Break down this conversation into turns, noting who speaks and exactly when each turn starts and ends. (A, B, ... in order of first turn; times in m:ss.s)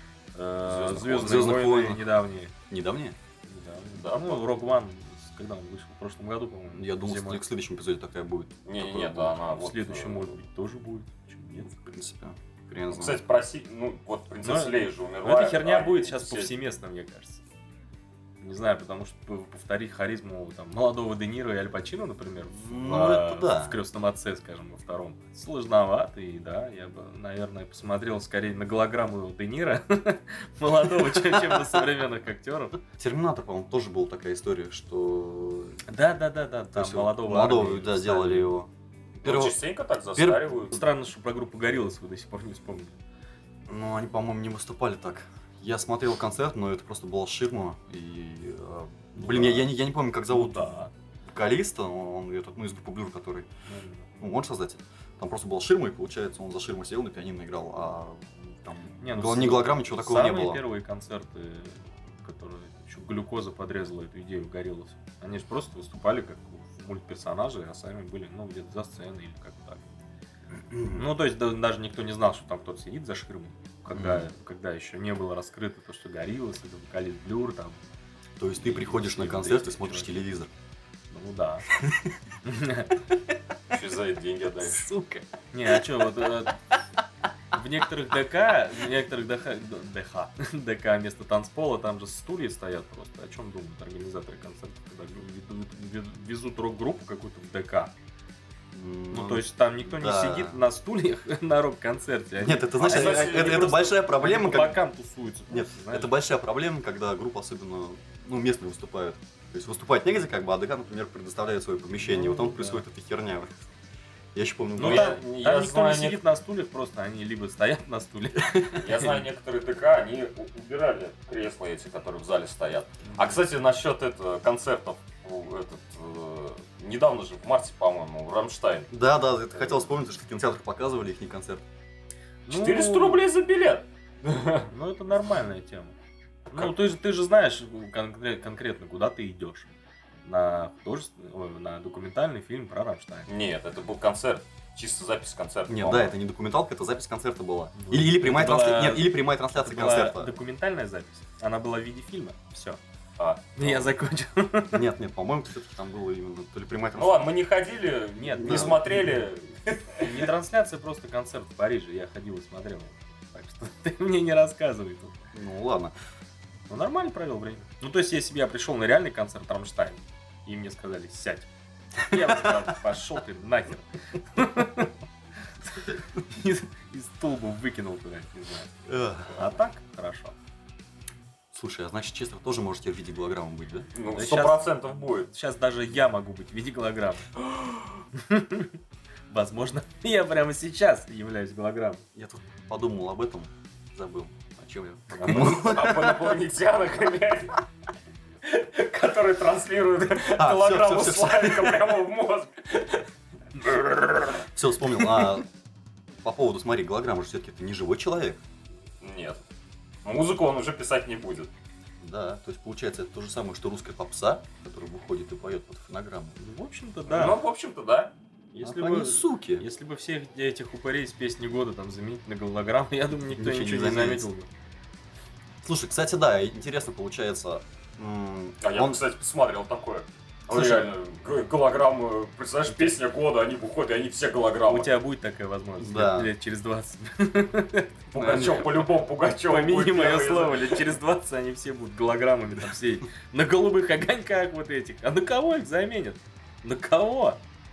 0:00.4-0:02.5 A
0:00.6-0:01.5 B
0:01.2-0:02.1 C
0:02.7-0:03.2 C
0:03.5-0:07.5 A
0:04.0-0:04.5 B
0:06.8-0:09.4 C
0:08.7-0:10.3 B
0:09.4-0:11.7 A
0:11.5-0:13.2 C
0:12.9-0:16.5 B
0:14.4-0:17.4 A
0:18.4-0:32.8 A
0:22.6-0:23.8 C
0:31.1-0:31.8 C
0:33.0-0:35.8 C
0:35.9-0:38.5 A
0:36.7-0:38.7 C
0:39.2-0:39.6 C
0:39.2-0:40.8 B
0:40.2-0:40.4 C
0:40.7-0:43.0 A
0:43.7-0:50.7 C
0:49.2-0:49.7 A
0:50.3-0:50.9 A
0:51.2-0:53.5 C
0:53.7-0:54.1 A
0:54.2-1:00.6 C
0:59.0-1:09.9 A
1:10.7-1:11.1 C
1:10.9-1:17.8 A
1:13.9-1:14.3 C
1:18.4-1:20.5 C
1:18.6-1:20.3 A
1:21.1-1:21.7 A
1:21.8-1:22.1 C
1:22.4-1:23.0 A
1:23.7-1:24.9 B
1:24.6-1:25.3 C
1:25.5-1:26.6 A
1:27.5-1:37.9 A
1:38.7-1:40.6 C
1:39.1-1:46.1 A
1:42.4-1:44.8 C
1:42.8-1:43.9 B
1:45.5-1:53.6 C
1:52.0-1:52.8 A
1:54.4-1:55.2 C
1:54.8-1:59.2 A
1:54.8-1:56.2 B
1:58.5-1:58.8 C
1:58.8-2:08.9 B
2:03.1-2:03.4 C
2:08.9-2:11.6 C
2:12.5-2:13.2 A
2:12.5-2:14.7 B
2:14.7-2:16.0 A
2:16.5-2:19.7 A
2:20.2-2:23.3 A
2:23.3-2:26.1 B
2:25.7-2:30.4 C
2:27.8-2:32.8 A
2:33.2-2:33.9 B
2:33.6-2:34.9 A
2:34.7-2:37.3 C
2:37.0-2:40.3 B
2:38.2-2:39.0 A
2:38.3-2:38.9 C
2:40.0-2:45.2 A
2:45.3-2:46.0 C
2:46.7-2:51.5 A
2:52.0-2:54.9 A
2:55.6-3:00.3 A
2:58.9-2:59.6 C
3:01.5-3:03.9 C
3:04.0-3:05.3 B
3:04.1-3:04.7 A
3:05.3-3:07.4 A
3:08.1-3:08.8 A
3:09.3-3:12.0 A
3:12.2-3:16.4 C
3:15.1-3:15.6 A
3:15.2-3:17.6 B
3:18.4-3:23.1 B
3:20.3-3:22.0 C
3:23.6-3:24.4 B
3:24.5-3:25.5 C
3:26.2-3:28.4 C
3:29.0-3:29.4 B
3:30.0-3:31.5 B
3:32.0-3:36.4 C
3:36.4-3:37.4 A
3:37.1-3:38.1 B
3:38.5-3:44.5 A
3:38.6-3:39.6 C
3:43.3-3:44.3 C
3:45.6-3:49.0 C
3:48.6-3:54.9 B
3:50.5-3:50.9 C
3:54.7-3:58.7 A
3:55.8-3:56.3 C
3:58.1-4:00.9 B
3:58.2-3:58.7 C
3:59.5-4:07.4 A